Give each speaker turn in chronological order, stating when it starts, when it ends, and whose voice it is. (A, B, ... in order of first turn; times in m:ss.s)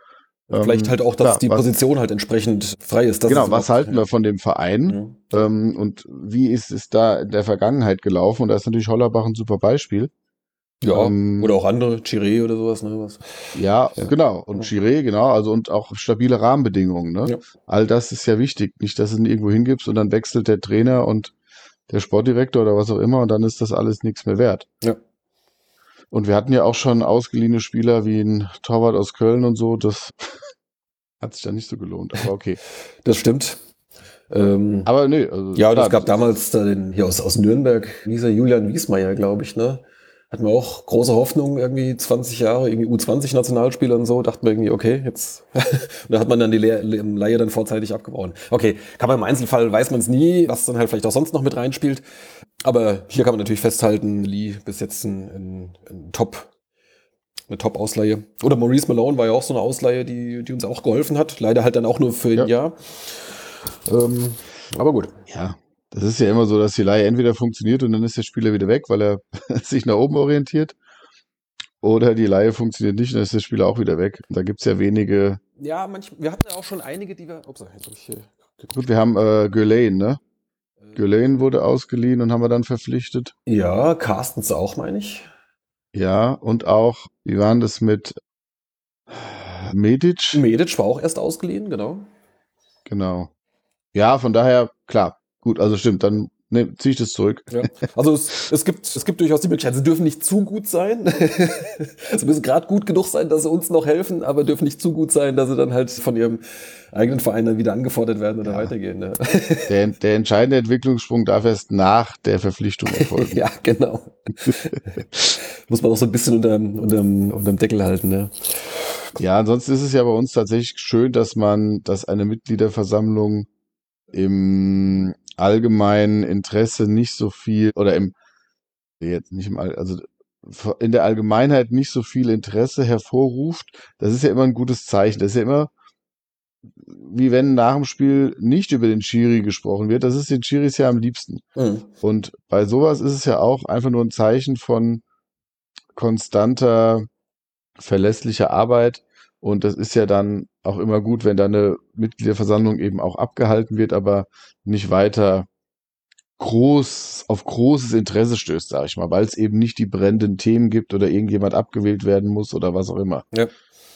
0:00.5-0:04.1 A
0:00.5-0:01.7 B
0:03.3-0:10.1 B
0:04.9-0:05.3 A
0:10.8-0:14.1 A
0:10.9-0:11.6 B
0:13.5-0:21.3 B
0:21.9-0:24.7 B
0:26.1-0:30.4 B
0:31.2-0:32.6 B
0:33.0-0:33.6 A
0:34.3-0:34.9 A
0:34.8-0:36.3 B
0:35.5-0:52.0 A
0:52.6-0:56.5 A
0:57.5-1:05.1 A
1:05.3-1:10.8 B
1:11.8-1:15.4 B
1:15.6-1:18.7 A
1:18.7-1:20.2 B
1:21.0-1:23.3 B
1:23.4-1:25.3 A
1:25.9-1:28.2 B
1:29.1-1:30.4 B
1:30.3-1:32.1 A
1:32.8-1:33.3 B
1:33.9-1:37.6 B
1:37.5-1:49.7 A
1:48.4-1:48.7 B
1:49.7-1:53.4 B
1:52.9-1:58.8 A
1:59.2-2:03.5 B
2:04.1-2:08.1 B
2:09.0-2:15.7 B
2:16.8-2:21.4 B
2:21.6-2:21.8 A
2:22.0-2:25.0 B
2:25.9-2:27.1 B
2:27.8-2:35.5 B
2:36.4-2:43.2 B